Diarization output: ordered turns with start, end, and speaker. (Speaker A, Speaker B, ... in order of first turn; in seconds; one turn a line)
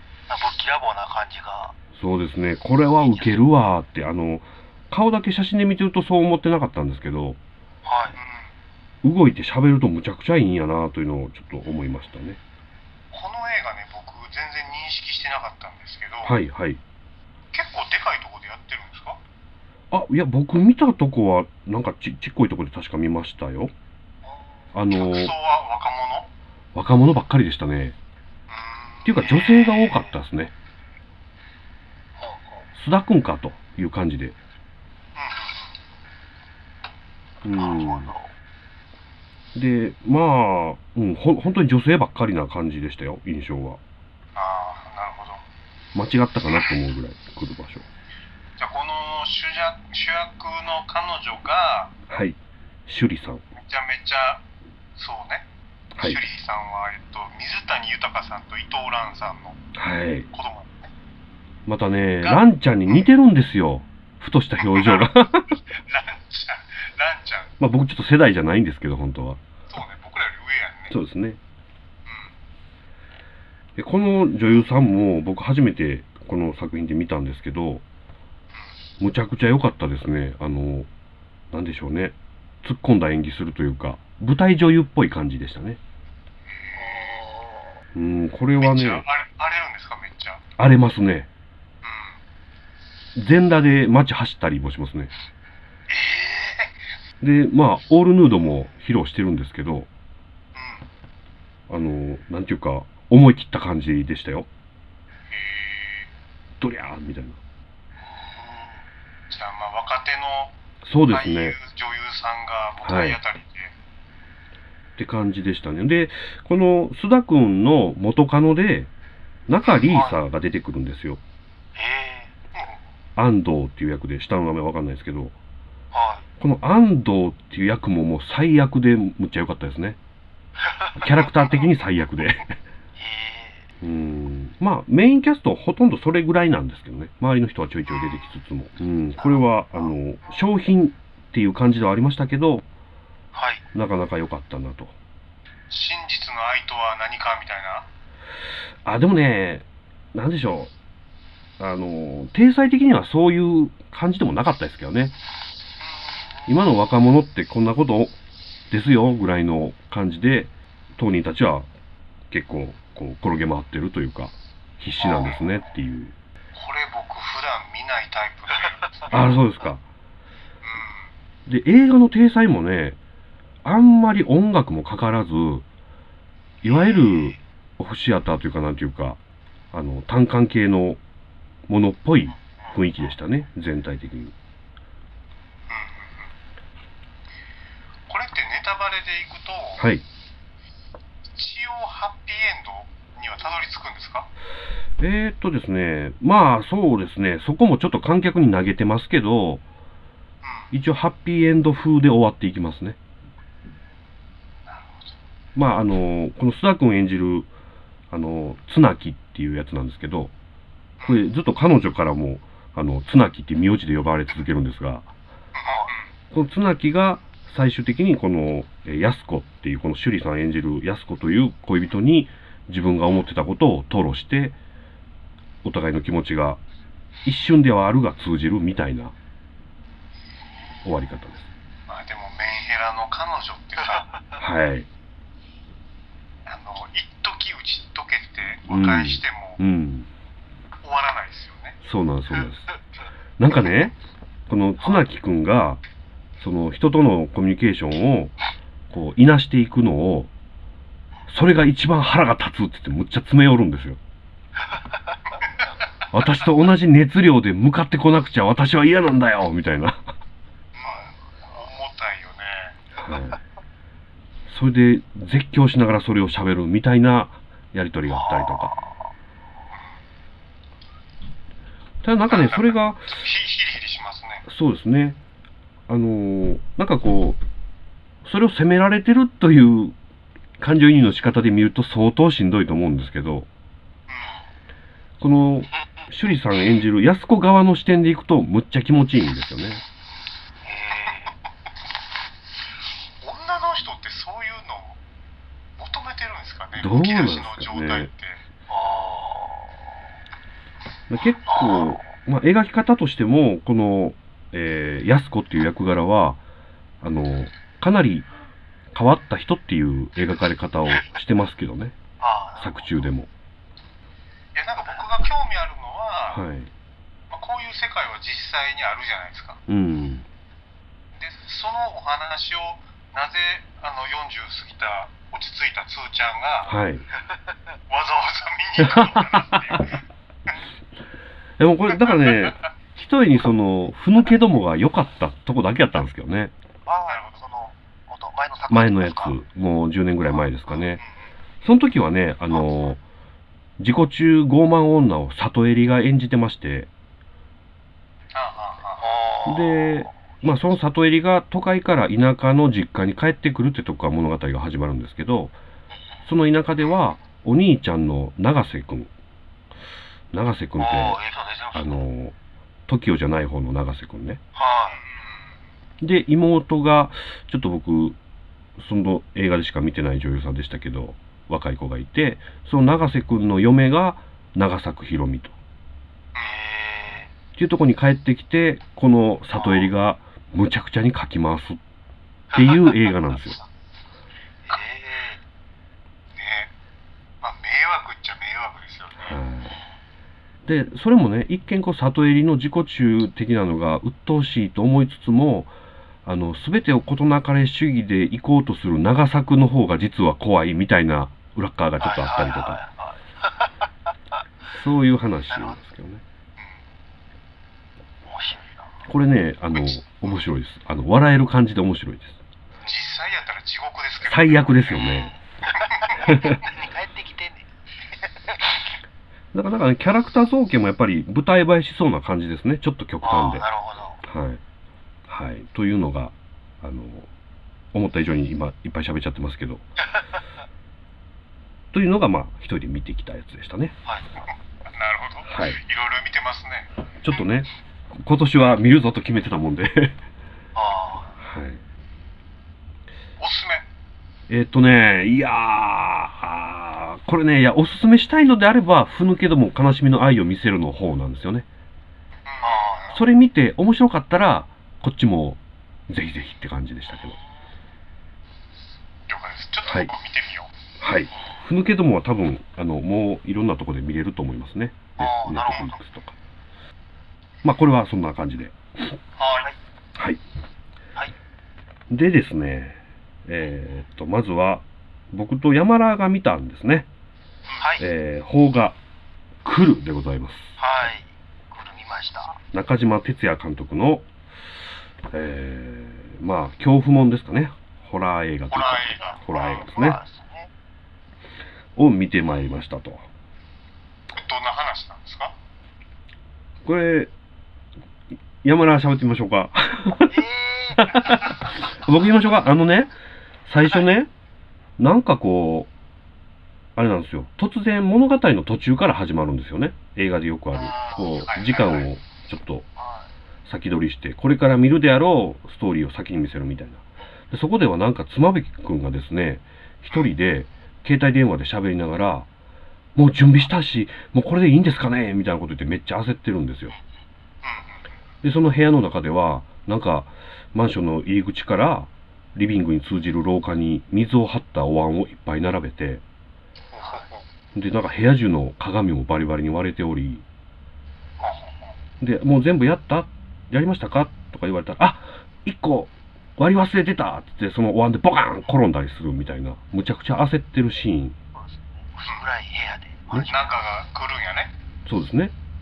Speaker A: 0.3-1.7
Speaker B: 1.9-7.4
Speaker A: 3.0-3.4
Speaker A: 7.8-8.2
Speaker C: 8.1-8.5
Speaker B: 9.0-12.4
Speaker C: 13.1-16.4
Speaker B: 16.2-16.8
Speaker C: 17.5-19.2
Speaker B: 19.9-23.7
Speaker A: 24.2-24.5
Speaker B: 24.7-25.3
Speaker C: 24.9-26.3
Speaker B: 26.7-27.9
Speaker C: 28.5-29.8
Speaker B: 29.0-30.5
Speaker A: 29.8-30.2
Speaker A: 32.2-32.6
Speaker B: 32.7-34.4
Speaker C: 35.1-35.6
Speaker B: 37.4-38.1
Speaker A: 37.5-38.3
Speaker B: 39.5-43.8
Speaker C: 44.4-45.4
Speaker B: 45.9-47.9
Speaker C: 48.6-51.9
Speaker B: 52.1-53.4
Speaker C: 53.5-54.4
Speaker C: 55.0-55.5
Speaker B: 56.0-56.2
Speaker C: 56.0-59.6
Speaker B: 59.7-60.3
Speaker C: 60.3-60.9
Speaker B: 61.6-65.6
Speaker C: 62.2-63.1
Speaker C: 64.6-65.1
Speaker C: 65.7-67.5
Speaker B: 67.6-69.4
Speaker C: 69.7-70.9
Speaker B: 70.9-71.4
Speaker B: 73.8-77.8
Speaker B: 79.0-80.9
Speaker B: 81.5-85.8
Speaker C: 86.5-87.2
Speaker A: 86.8-87.7
Speaker B: 87.9-89.0
Speaker C: 88.6-90.4
Speaker B: 90.6-91.3
Speaker C: 91.8-92.2
Speaker B: 93.1-95.1
Speaker B: 97.2-99.9
Speaker C: 100.5-100.8
Speaker B: 101.7-104.5
Speaker C: 105.3-106.1
Speaker B: 106.6-107.4
Speaker C: 109.3-110.5
Speaker B: 110.8-111.6
Speaker C: 111.1-113.7
Speaker B: 112.8-113.2
Speaker B: 115.0-118.9
Speaker B: 119.5-121.2
Speaker A: 119.9-120.1
Speaker A: 121.8-122.3
Speaker B: 123.2-125.3
Speaker A: 125.9-126.2
Speaker B: 126.4-130.0
Speaker A: 130.6-131.0
Speaker B: 131.0-132.6
Speaker A: 132.9-133.7
Speaker B: 133.8-142.6
Speaker C: 137.9-138.2
Speaker A: 143.3-143.6
Speaker B: 143.7-144.9
Speaker C: 145.7-147.9
Speaker B: 148.8-150.7
Speaker B: 151.6-155.1
Speaker C: 155.8-156.2
Speaker B: 156.5-158.1
Speaker B: 158.7-161.7
Speaker B: 162.3-166.1
Speaker C: 166.5-169.2
Speaker B: 169.1-169.8
Speaker C: 170.6-171.1
Speaker B: 171.4-173.0
Speaker B: 173.6-175.6
Speaker B: 176.6-179.2
Speaker B: 179.7-181.0
Speaker B: 181.7-184.3
Speaker C: 185.7-186.3
Speaker C: 188.1-189.8
Speaker B: 189.8-190.0
Speaker C: 191.3-194.3
Speaker B: 195.0-199.6
Speaker C: 200.4-200.7
Speaker B: 200.7-203.0
Speaker C: 204.7-205.1
Speaker B: 205.5-207.5
Speaker B: 208.1-210.3
Speaker B: 211.0-215.1
Speaker C: 215.6-216.1
Speaker A: 215.6-215.9
Speaker B: 216.3-224.6
Speaker B: 225.6-226.6
Speaker B: 227.2-229.1
Speaker B: 230.8-231.5
Speaker C: 231.9-234.1
Speaker A: 233.9-234.2
Speaker B: 234.4-234.9
Speaker C: 236.4-239.6
Speaker B: 238.7-240.1
Speaker C: 240.8-241.8
Speaker B: 241.8-242.7
Speaker B: 243.4-243.9
Speaker B: 244.5-245.8
Speaker B: 246.4-248.3
Speaker B: 248.9-250.3
Speaker B: 251.3-254.0
Speaker B: 256.1-260.1
Speaker C: 260.7-262.8
Speaker B: 263.0-263.4
Speaker B: 264.5-268.7
Speaker A: 268.1-268.8
Speaker B: 272.0-273.2
Speaker C: 272.3-274.4
Speaker B: 274.4-275.2
Speaker B: 275.9-277.4
Speaker B: 278.2-279.9
Speaker B: 280.6-283.5
Speaker C: 284.1-284.4
Speaker B: 285.2-289.8
Speaker A: 290.6-291.3
Speaker C: 293.2-295.0
Speaker C: 295.8-298.4
Speaker B: 296.8-298.1
Speaker A: 298.7-299.7
Speaker B: 301.1-306.4
Speaker A: 301.5-301.9
Speaker B: 307.0-308.3
Speaker B: 308.9-311.9
Speaker A: 312.2-312.9
Speaker B: 312.6-313.3
Speaker C: 314.5-316.4
Speaker B: 316.3-316.7
Speaker C: 317.3-319.6
Speaker B: 319.7-320.2
Speaker C: 321.1-326.7
Speaker B: 326.6-327.1
Speaker C: 327.9-330.0
Speaker B: 328.8-330.0
Speaker B: 331.6-336.5
Speaker C: 332.1-332.6
Speaker A: 336.9-339.3
Speaker C: 337.1-337.4
Speaker B: 338.7-341.0
Speaker B: 341.6-343.0
Speaker B: 343.8-346.9
Speaker C: 348.3-349.0
Speaker A: 349.0-350.1
Speaker B: 349.4-355.5
Speaker B: 356.2-359.1
Speaker B: 360.3-361.2
Speaker A: 360.8-362.0
Speaker B: 361.7-362.3
Speaker B: 362.9-364.4
Speaker A: 364.6-365.0
Speaker C: 364.9-365.5
Speaker B: 366.0-368.2
Speaker B: 368.8-375.5
Speaker A: 376.4-377.3
Speaker B: 377.6-381.8
Speaker A: 379.6-379.9
Speaker B: 382.5-383.6
Speaker A: 382.5-383.1
Speaker A: 384.6-385.4
Speaker C: 386.3-386.7
Speaker C: 387.4-389.4
Speaker B: 389.2-389.8
Speaker B: 390.6-395.7
Speaker B: 396.2-402.8
Speaker A: 402.0-403.9
Speaker B: 404.7-406.2
Speaker A: 405.5-405.8
Speaker A: 408.2-408.9
Speaker B: 409.1-412.4
Speaker C: 409.7-410.4
Speaker C: 412.8-415.3
Speaker B: 414.2-415.3
Speaker A: 415.0-418.9
Speaker C: 415.8-416.2
Speaker B: 416.2-416.6
Speaker B: 419.5-423.7
Speaker A: 423.2-424.2
Speaker B: 424.2-424.6
Speaker B: 425.3-427.3
Speaker B: 427.9-429.8
Speaker B: 431.9-433.9
Speaker C: 434.9-436.9
Speaker B: 435.4-435.8
Speaker B: 437.2-440.2
Speaker A: 440.8-441.3
Speaker B: 441.4-441.8
Speaker C: 443.4-443.9
Speaker B: 444.5-451.6
Speaker C: 452.4-453.2
Speaker A: 452.6-453.1
Speaker B: 453.1-457.4
Speaker C: 459.3-460.7
Speaker B: 459.8-460.1
Speaker B: 461.0-466.4
Speaker A: 465.2-466.0
Speaker B: 467.6-469.1
Speaker C: 469.4-469.7
Speaker B: 470.1-470.4
Speaker B: 472.1-477.1
Speaker A: 477.8-478.1
Speaker B: 478.0-479.0
Speaker B: 479.6-481.1
Speaker A: 480.8-482.6
Speaker B: 482.7-484.2
Speaker B: 485.3-490.2
Speaker C: 488.7-489.8
Speaker A: 489.1-490.7
Speaker B: 491.9-493.2
Speaker C: 494.3-495.5
Speaker B: 496.8-497.3
Speaker B: 498.6-500.4
Speaker A: 500.3-501.4
Speaker B: 500.9-503.1
Speaker B: 503.7-504.3
Speaker B: 505.0-505.9
Speaker B: 506.9-512.9
Speaker C: 510.8-512.1
Speaker A: 513.0-513.3
Speaker B: 513.6-522.5
Speaker B: 523.1-526.9
Speaker C: 527.6-528.0
Speaker B: 528.4-536.2
Speaker C: 536.9-537.4
Speaker B: 537.7-540.4
Speaker C: 541.4-541.9
Speaker B: 542.2-551.4
Speaker A: 551.5-553.7
Speaker C: 553.5-554.7
Speaker B: 555.0-555.5